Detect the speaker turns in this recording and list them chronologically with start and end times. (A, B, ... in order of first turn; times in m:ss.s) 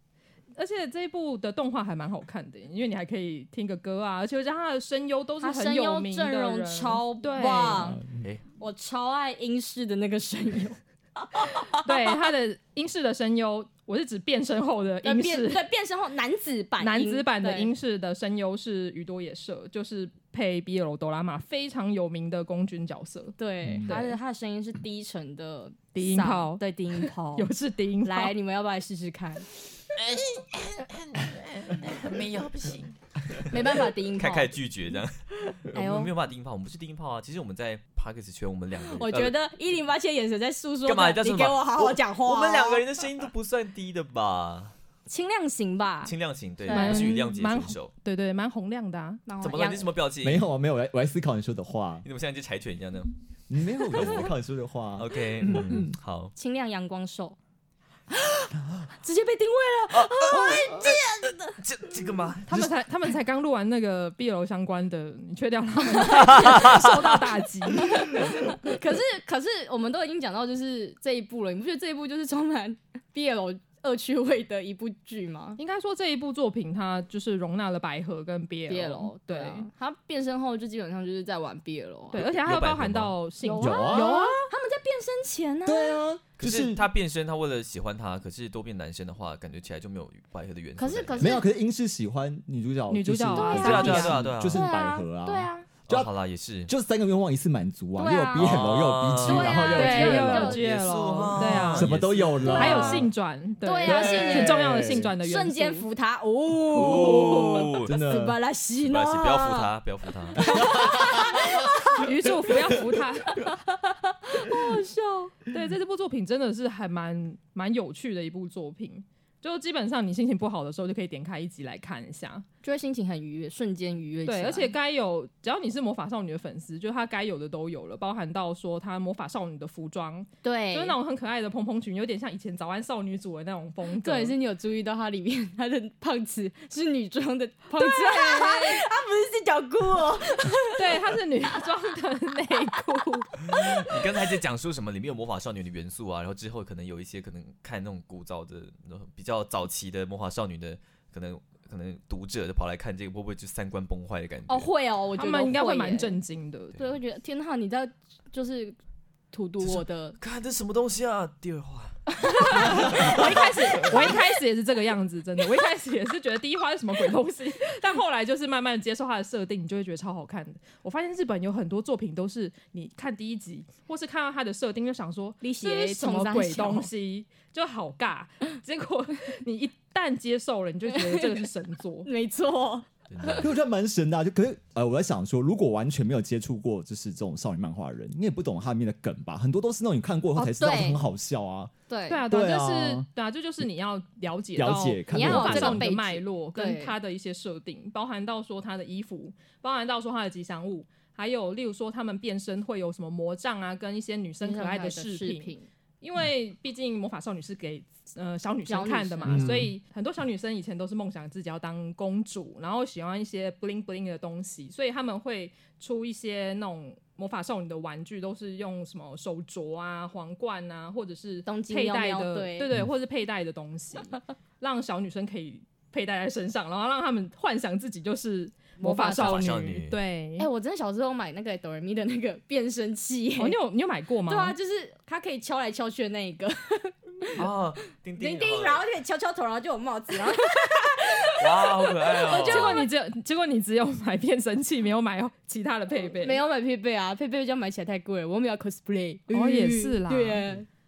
0:00.6-0:08.0 A
0:05.4-0:08.0 B
0:07.7-0:08.2 C
0:08.6-0:12.0 B
0:11.8-0:15.7 A
0:15.0-0:17.7 B
0:16.8-0:24.2 A
0:23.4-0:27.5 B
0:23.6-0:23.9 C
0:25.9-0:28.3 A
0:28.0-0:29.4 B
0:30.0-0:33.0 D
0:33.5-0:34.5 B
0:34.2-0:39.3 E
0:35.7-0:36.1 B
0:39.0-0:42.8 B
0:40.8-0:44.7 E
0:45.1-0:47.3 B
0:46.0-0:47.9 E
0:46.7-0:49.2 A
0:49.2-0:49.9 B
0:49.4-0:50.4 E
0:50.2-0:52.0 C
0:52.0-0:53.1 E
0:53.5-0:55.9 C
0:55.0-0:56.3 E
0:56.4-0:57.4 B
0:58.1-1:01.6 B
0:59.9-1:02.5 E
1:02.5-1:08.4 A
1:05.9-1:06.6 B
1:06.2-1:06.9 E
1:07.8-1:15.6 B
1:15.6-1:19.7 A
1:18.7-1:22.3 B
1:22.1-1:24.4 A
1:22.1-1:23.2 E
1:23.4-1:26.0 B
1:23.6-1:24.3 C
1:25.6-1:26.9 C
1:26.4-1:31.4 E
1:30.8-1:31.5 B
1:31.2-1:36.1 C
1:32.9-1:34.2 A
1:33.3-1:33.9 B
1:33.6-1:34.6 E
1:34.5-1:35.7 B
1:35.8-1:36.7 E
1:36.7-1:40.6 C
1:38.0-1:41.3 B
1:38.3-1:42.6 E
1:39.4-1:41.9 A
1:41.4-1:43.1 C
1:42.4-1:43.1 B
1:42.4-1:45.8 A
1:43.6-1:49.7 B
1:43.8-1:45.1 C
1:46.7-1:48.0 E
1:47.0-1:48.4 C
1:48.8-1:50.5 E
1:50.3-1:52.1 B
1:50.4-1:53.0 C
1:52.0-1:53.4 A
1:53.3-1:55.4 B
1:55.5-2:02.4 A
2:02.6-2:04.7 B
2:04.2-2:14.4 A
2:10.4-2:11.0 B
2:14.0-2:21.0 B
2:17.8-2:18.7 A
2:20.8-2:23.3 A
2:23.4-2:34.7 E
2:34.5-2:36.2 B
2:35.1-2:36.8 A
2:36.8-2:38.8 B
2:39.3-2:40.2 B
2:39.6-2:42.0 E
2:42.2-3:02.1 A
2:42.6-2:43.2 E
2:55.4-2:56.9 B
3:00.9-3:01.4 B
3:02.0-3:03.4 B
3:03.1-3:03.6 E
3:03.4-3:11.7 C
3:10.4-3:11.0 B
3:11.9-3:12.2 B
3:12.1-3:50.5 A
3:12.3-3:13.1 C
3:14.5-3:15.9 C
3:15.1-3:17.0 B
3:24.4-3:25.7 B
3:28.7-3:29.5 B
3:29.3-3:29.7 C
3:41.4-3:42.7 B
3:48.8-3:49.5 B
3:49.1-3:50.0 E
3:50.4-3:53.6 B
3:53.4-3:54.6 A
3:54.3-3:57.5 B
3:57.3-3:58.8 E
3:58.2-4:02.9 B
4:01.4-4:02.8 E
4:02.3-4:06.4 A
4:06.0-4:10.6 B
4:09.3-4:10.5 A